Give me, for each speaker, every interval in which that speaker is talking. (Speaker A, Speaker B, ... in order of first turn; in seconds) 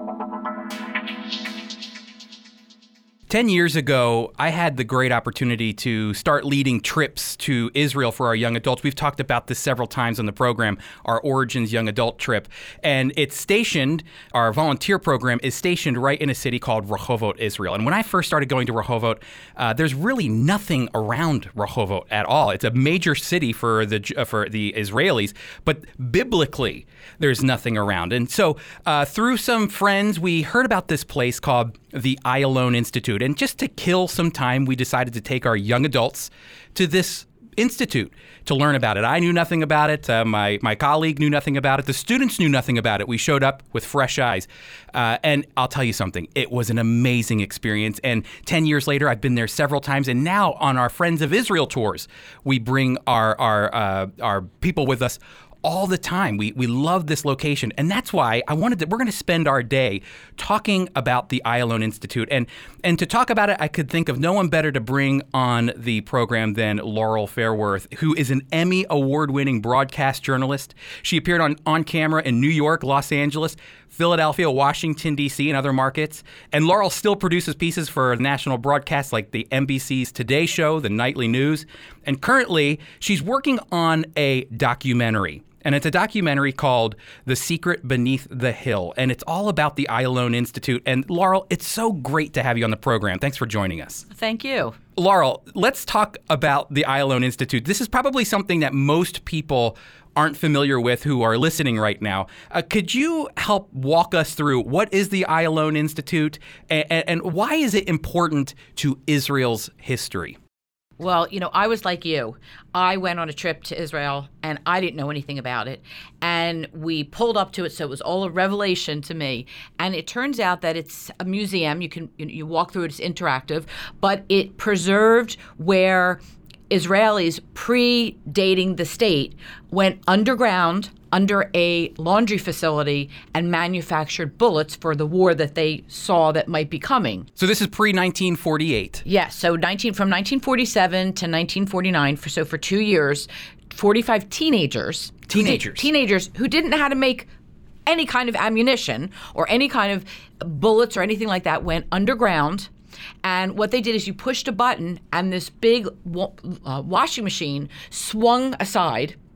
Speaker A: 3.3-94.1, 95.0-110.4, 137.4-139.0, 145.3-145.9
Speaker B: 94.1-94.8, 111.0-137.3, 139.1-147.3, 147.9-152.7, 153.2-159.2